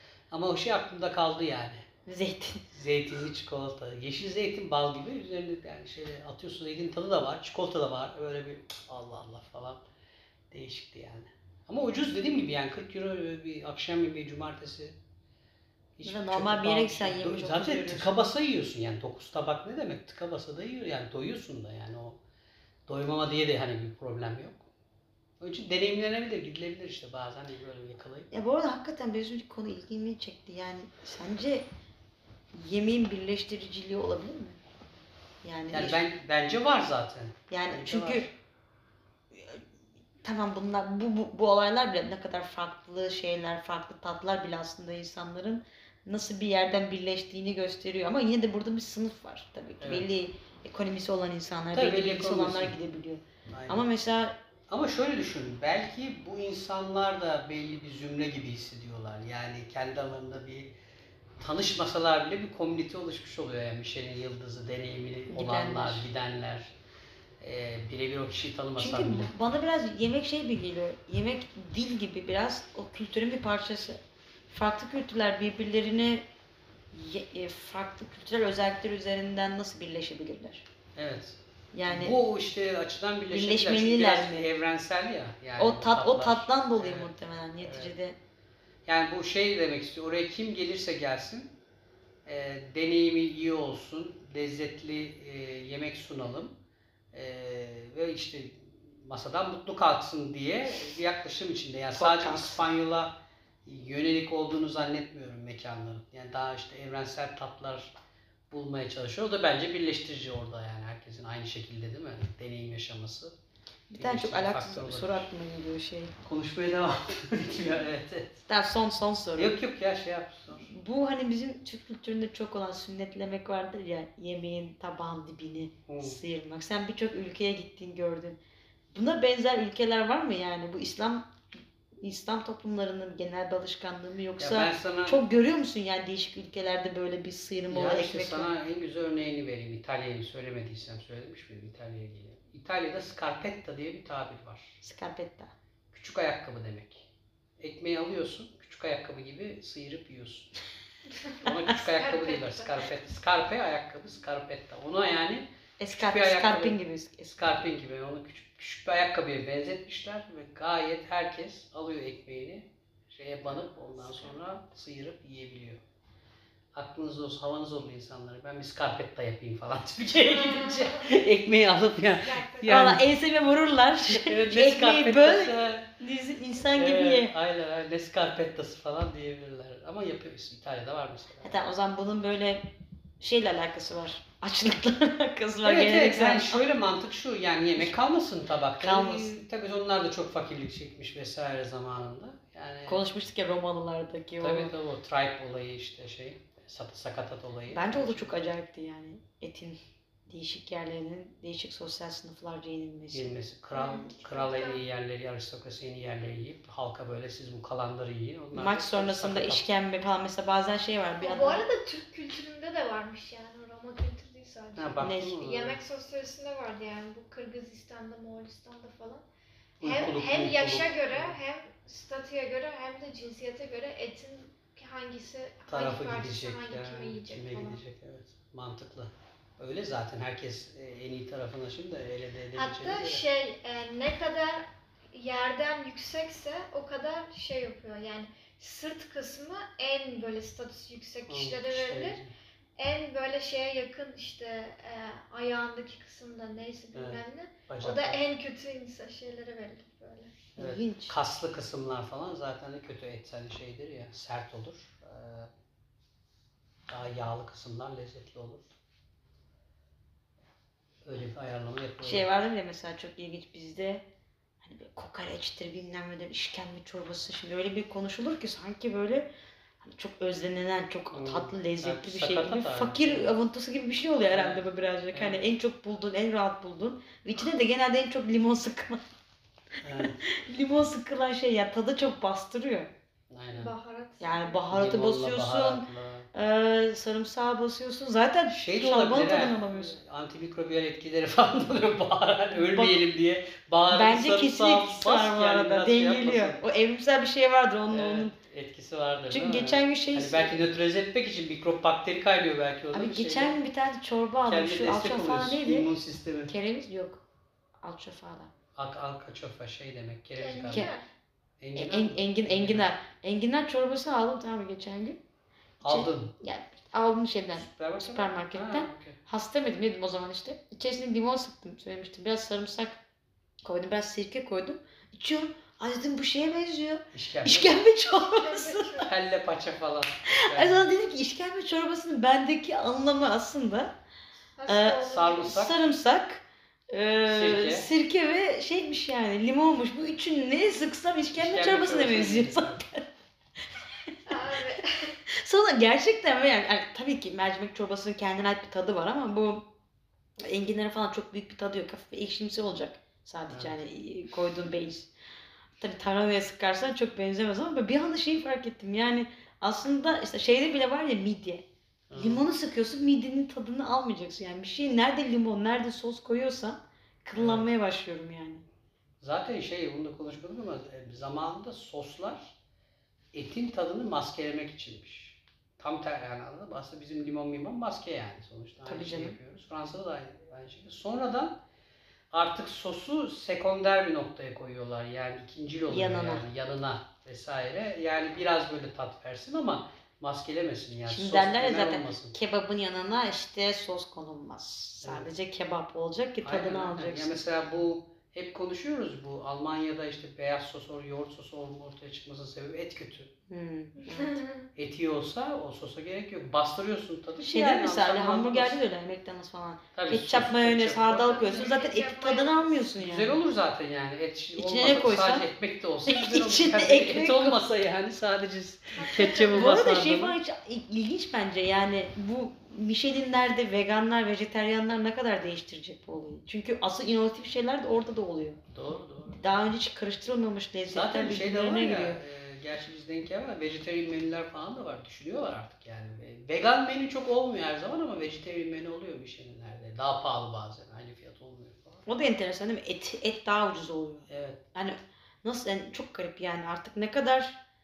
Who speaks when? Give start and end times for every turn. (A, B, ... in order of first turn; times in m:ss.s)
0:00.3-0:01.8 A
0:02.1-0:02.7 B
0:02.7-0:09.8 A
0:10.5-0:15.0 A
0:16.0-0:22.2 A
0:16.0-0:18.2 B
0:22.9-0:24.7 A
0:25.4-0:28.3 A
0:28.3-0:31.7 B
0:32.5-0:34.6 B
0:35.4-0:36.0 B
0:35.7-0:38.3 A
0:37.5-0:38.3 B
0:39.3-0:39.6 B
0:40.2-0:54.4 B
0:49.8-0:50.1 A
0:51.7-0:52.8 A
0:53.5-0:53.9 A
0:54.7-1:00.7 A
1:01.4-1:06.7 A
1:05.3-1:06.1 B
1:07.4-1:09.3 A
1:08.8-1:16.3 B
1:16.9-1:20.7 B
1:21.0-1:27.1 A
1:21.7-1:22.2 B
1:23.3-1:24.5 B
1:25.6-1:28.2 B
1:27.6-1:27.9 A
1:28.9-1:31.6 A
1:32.3-1:36.6 A
1:37.1-1:47.9 A
1:41.9-1:42.6 B
1:48.5-1:53.4 A
1:53.9-1:56.2 B
1:54.0-1:55.3 A
1:56.2-1:58.4 A
1:58.5-1:59.6 B
1:59.4-2:00.7 A
2:00.7-2:08.4 B
2:05.9-2:06.2 A
2:08.9-2:11.3 B
2:12.0-2:18.5 B
2:14.4-2:15.2 A
2:17.7-2:24.8 A
2:24.8-2:25.5 B
2:25.9-2:27.1 A
2:27.6-2:30.5 A
2:31.2-2:32.8 C
2:31.4-2:36.8 A
2:35.8-2:37.7 B
2:37.3-2:45.8 A
2:46.7-2:53.1 A
2:52.2-2:52.7 C
2:52.6-2:57.3 B
2:54.1-2:55.9 A
2:56.7-3:01.6 A
3:01.4-3:06.6 B
3:05.6-3:13.0 A
3:08.8-3:09.4 B
3:12.9-3:14.7 B
3:14.4-3:18.4 A
3:17.7-3:23.4 B
3:23.1-3:29.6 A
3:23.7-3:24.8 C
3:28.5-3:31.6 B
3:31.2-3:39.2 C
3:34.8-3:35.8 A
3:35.0-3:35.4 B
3:39.8-3:41.4 A
3:39.8-3:47.8 C
3:45.7-3:53.2 A
3:52.6-4:02.2 C
4:01.3-4:02.3 A
4:02.8-4:10.4 C
4:07.0-4:08.2 A
4:10.6-4:15.5 A
4:10.6-4:11.2 B
4:16.9-4:18.7 A
4:21.0-4:22.2 A
4:22.0-4:24.0 B
4:24.6-4:29.3 B
4:29.8-4:39.0 B
4:31.1-4:33.3 A
4:34.3-4:35.4 A
4:39.8-4:40.2 A
4:40.2-4:42.9 B
4:43.3-4:43.7 A
4:43.6-4:44.6 C
4:44.2-4:50.0 B
4:44.7-4:46.3 A
4:48.5-4:56.6 A
4:52.6-4:53.0 B
4:53.9-4:58.3 B
4:57.9-5:03.6 A
4:59.3-5:00.6 B
5:02.9-5:05.9 B
5:04.5-5:06.5 A
5:06.5-5:07.2 B
5:07.8-5:08.5 B
5:08.8-5:10.9 A
5:10.4-5:11.1 C
5:11.6-5:12.9 A
5:11.8-5:15.2 B
5:15.8-5:16.3 A
5:15.8-5:23.0 B
5:17.6-5:19.2 A
5:23.6-5:29.1 B
5:27.1-5:27.8 A
5:28.0-5:29.1 C
5:29.1-5:30.9 A
5:30.3-5:34.0 B
5:34.6-5:35.6 C
5:34.7-5:43.1 B
5:34.9-5:35.8 A
5:37.3-5:37.9 A
5:41.3-5:42.8 A
5:44.3-5:45.2 C
5:44.4-5:49.7 B
5:50.4-5:55.1 B
5:55.8-6:08.6 B
6:02.1-6:02.4 A
6:07.4-6:07.7 A
6:09.2-6:12.5 A
6:13.3-6:21.6 A
6:18.9-6:19.4 B
6:22.3-6:32.4 A
6:25.9-6:26.4 B
6:31.1-6:37.3 B
6:35.0-6:35.3 A
6:36.4-6:43.3 A
6:43.5-6:44.4 B
6:44.0-6:44.7 C
6:44.8-6:48.8 A
6:47.4-6:53.4 B
6:50.0-6:51.8 A
6:51.3-6:52.8 C
6:53.0-7:00.4 A
6:54.6-6:55.5 B
6:56.1-6:57.6 B
6:59.0-6:59.8 C
6:59.1-7:08.6 B
7:08.7-7:09.4 A
7:09.4-7:12.2 B
7:10.9-7:22.0 A
7:22.1-7:27.6 B
7:24.3-7:24.6 A